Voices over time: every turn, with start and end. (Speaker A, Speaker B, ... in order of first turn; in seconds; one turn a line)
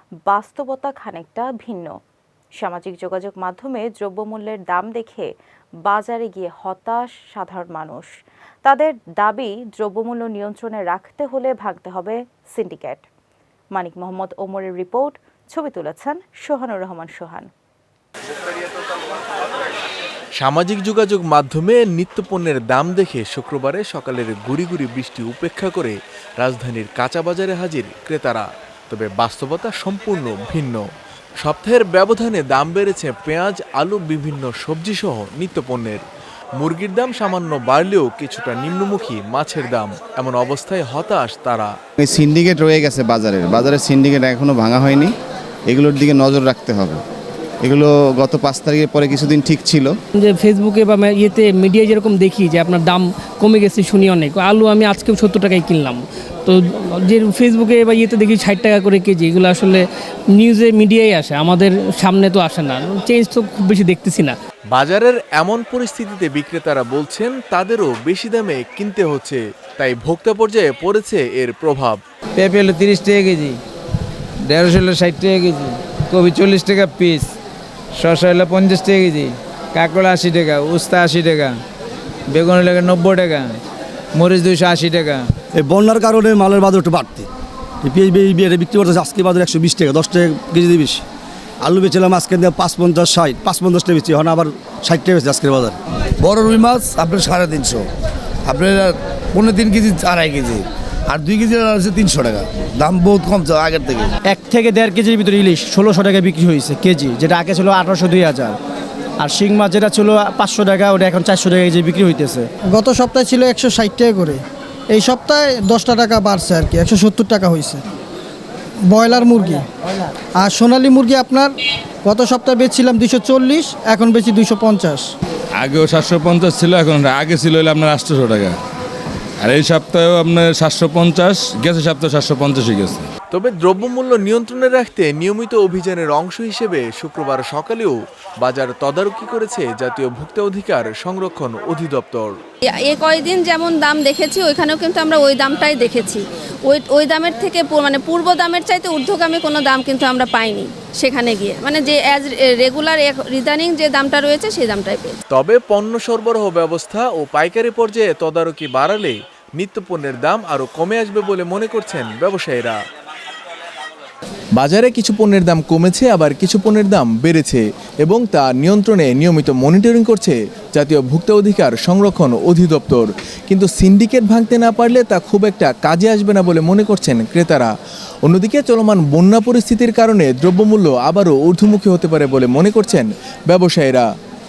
Speaker A: 0.2-1.9
Speaker A: 2.6-5.3
Speaker A: 5.8-8.1
Speaker A: 8.6-13.0
Speaker A: 13.7-17.5
Speaker B: 20.4-30.8
Speaker B: 31.4-36.0
Speaker B: 36.6-41.7
Speaker C: 42.0-45.1
Speaker C: 45.7-47.0
Speaker C: 47.6-49.9
Speaker D: 50.2-59.8
Speaker D: 60.4-64.3
Speaker B: 64.7-72.0
Speaker E: 72.3-73.6
Speaker E: 74.4-77.3
Speaker E: 77.9-81.6
Speaker E: 82.3-83.6
Speaker E: 84.1-85.3
Speaker F: 85.5-87.3
Speaker F: 87.8-91.0
Speaker F: 91.6-95.8
Speaker G: 96.2-97.8
Speaker G: 98.4-104.1
Speaker H: 104.3-108.6
Speaker H: 109.2-112.5
Speaker I: 112.7-114.4
Speaker I: 114.9-117.8
Speaker I: 118.9-119.6
Speaker I: 120.4-121.5
Speaker I: 122.0-125.0
Speaker J: 125.6-128.6
Speaker J: 129.4-133.1
Speaker B: 133.3-142.3
Speaker K: 142.6-155.2
Speaker B: 155.3-162.8
Speaker B: 164.6-177.7
Speaker B: 178.2-184.1